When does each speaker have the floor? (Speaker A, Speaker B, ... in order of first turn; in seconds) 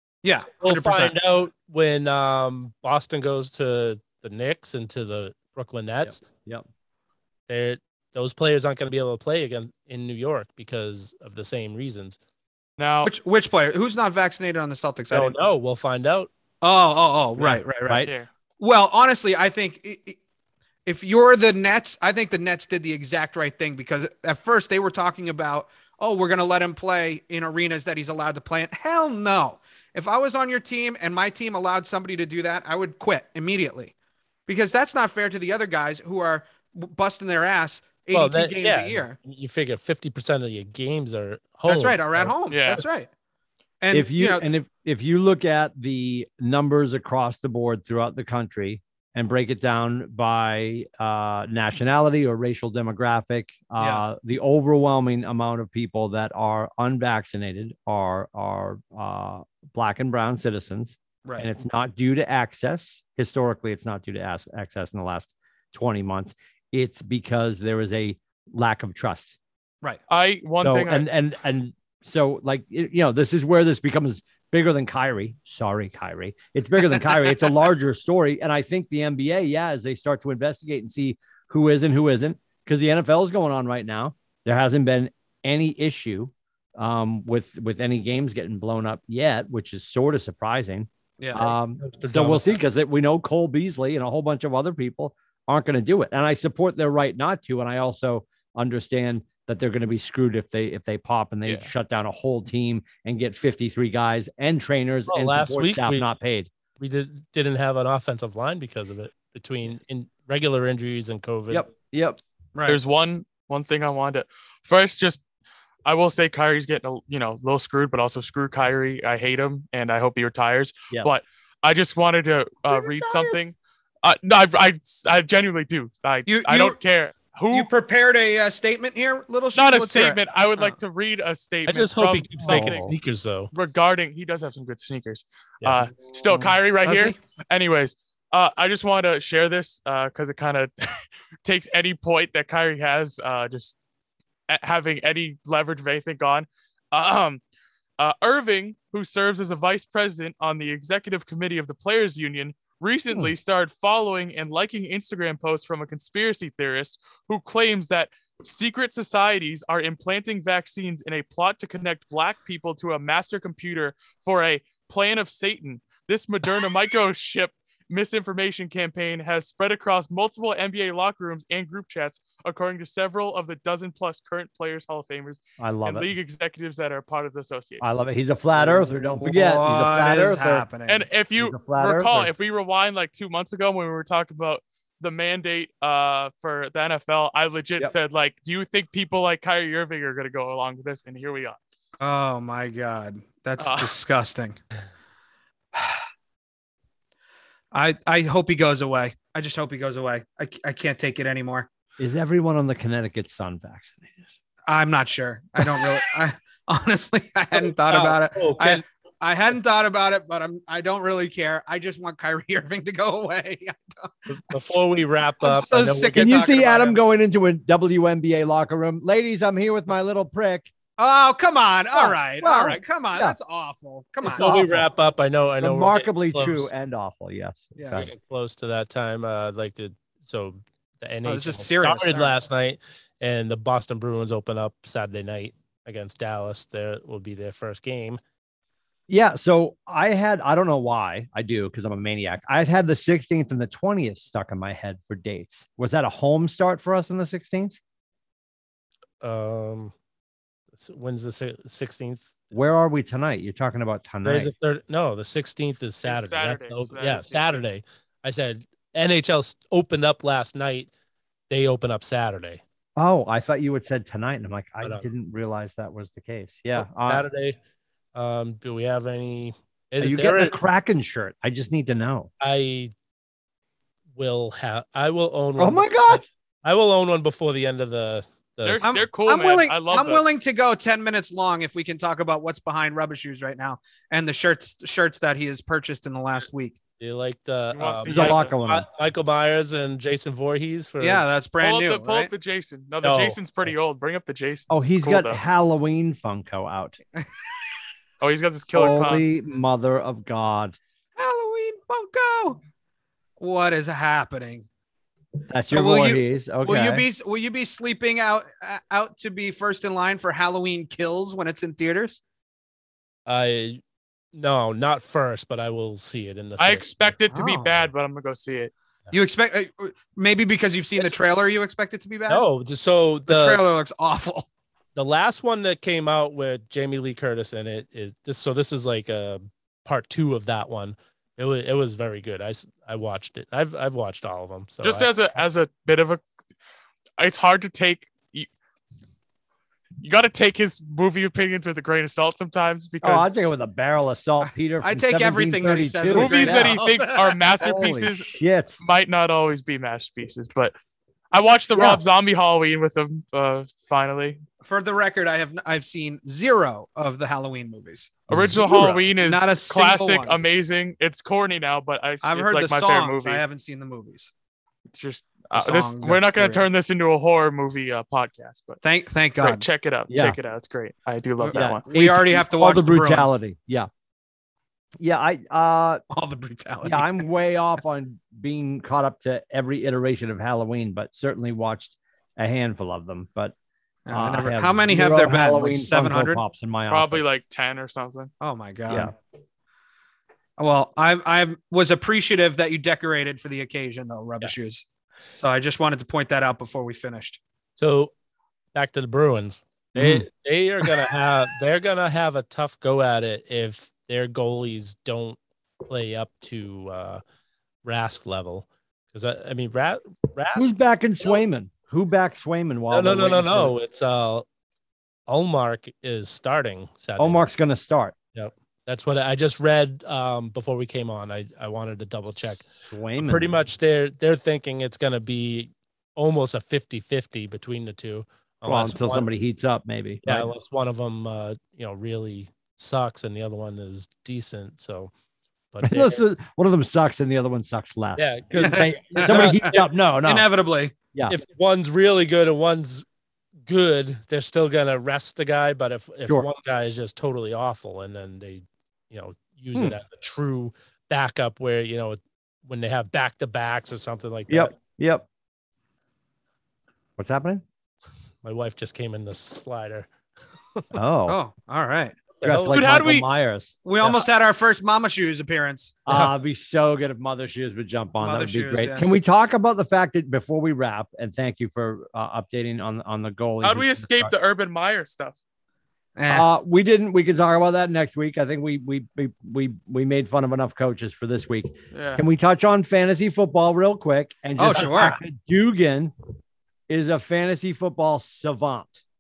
Speaker A: 0.2-1.1, 13.0-15.4, 16.6-18.1, 18.6-20.2, 20.9-33.9, 34.5-39.2, 41.7-43.1, 43.8-44.4, 53.8-54.0, 91.2-91.5, 112.5-112.8, 122.7-123.5, 126.3-126.8, 127.5-130.8, 136.8-137.2, 178.7-181.1, 192.0-194.6, 197.7-201.7, 204.7-214.2, 215.4-217.0, 221.0-224.6, 227.8-228.1, 231.2-232.4, 278.8-286.8, 291.0-292.3, 301.2-302.6, 303.4-304.7, 305.7-312.2, 317.3-317.8, 319.1-322.4, 323.3-324.5, 344.8-347.4, 354.6-360.4, 362.2-364.3, 365.5-366.7, 368.8-369.6, 371.4-373.4, 376.1-377.2, 384.1-386.4, 388.4-389.1, 390.6-394.9, 395.4-397.4, 438.6-440.9, 461.3-462.2, 463.9-466.0, 468.2-469.2, 476.2-476.5, 484.6-485.2
Speaker B: 0.6-6.2, 7.5-12.2, 15.1-16.3, 38.1-42.4, 91.4-92.5, 105.1-106.0, 106.8-111.7, 131.7-133.5, 207.5-208.8, 214.3-216.4, 224.3-226.7, 227.9-238.2, 249.2-249.9, 250.7-252.3, 254.2-260.9, 261.5-262.6, 266.8-267.6, 268.1-270.6, 272.4-272.9, 274.2-278.9, 287.0-291.2, 293.0-293.7, 313.3-313.8, 314.3-317.0, 322.3-323.6, 324.9-335.1, 397.8-398.1, 398.7-407.2, 407.8-410.7, 412.9-414.5, 415.3-417.4, 418.4-429.3, 430.2-435.1, 435.7-436.2, 438.2-439.9, 441.3-443.1, 443.7-454.7, 458.4-460.1, 462.4-462.9
Speaker C: 6.0-6.7, 43.9-69.4, 70.6-106.5, 111.5-112.2, 132.4-133.0, 175.6-176.1, 177.8-180.7, 181.4-182.3, 202.0-204.3, 216.2-220.7, 221.9-223.4, 224.2-224.9, 225.6-228.1, 239.1-247.8, 252.5-254.5, 263.0-267.2, 270.0-272.3, 275.6-276.2, 288.1-288.9, 294.7-297.0, 298.7-300.8, 305.5-307.1, 343.0-346.8, 347.6-348.8, 351.8-352.0, 358.3-359.0, 370.1-370.4, 371.6-373.9, 375.0-376.0, 376.8-383.6, 384.1-387.3, 399.9-400.3, 410.6-413.8, 417.2-418.1, 422.7-423.5, 428.7-430.5, 435.8-440.5, 454.5-455.3, 457.2-457.6, 460.9-461.4, 462.4-464.2, 466.1-474.3, 476.3-486.1, 486.9-489.0
Speaker D: 12.8-13.1, 18.0-18.3, 42.5-42.8, 70.1-71.1, 112.7-115.2, 115.8-127.7, 129.5-132.9, 133.5-143.8, 144.5-147.4, 148.0-177.8, 180.9-191.6, 193.6-193.9, 256.1-257.6, 278.6-280.2, 287.7-288.5, 291.6-295.4, 298.2-299.3, 316.6-318.7, 334.8-336.2, 337.2-338.5, 340.0-343.3, 346.1-350.7, 351.3-354.4, 358.3-363.4, 364.9-368.8, 369.4-371.8, 386.9-388.3, 462.5-463.2, 473.6-475.4, 481.9-482.2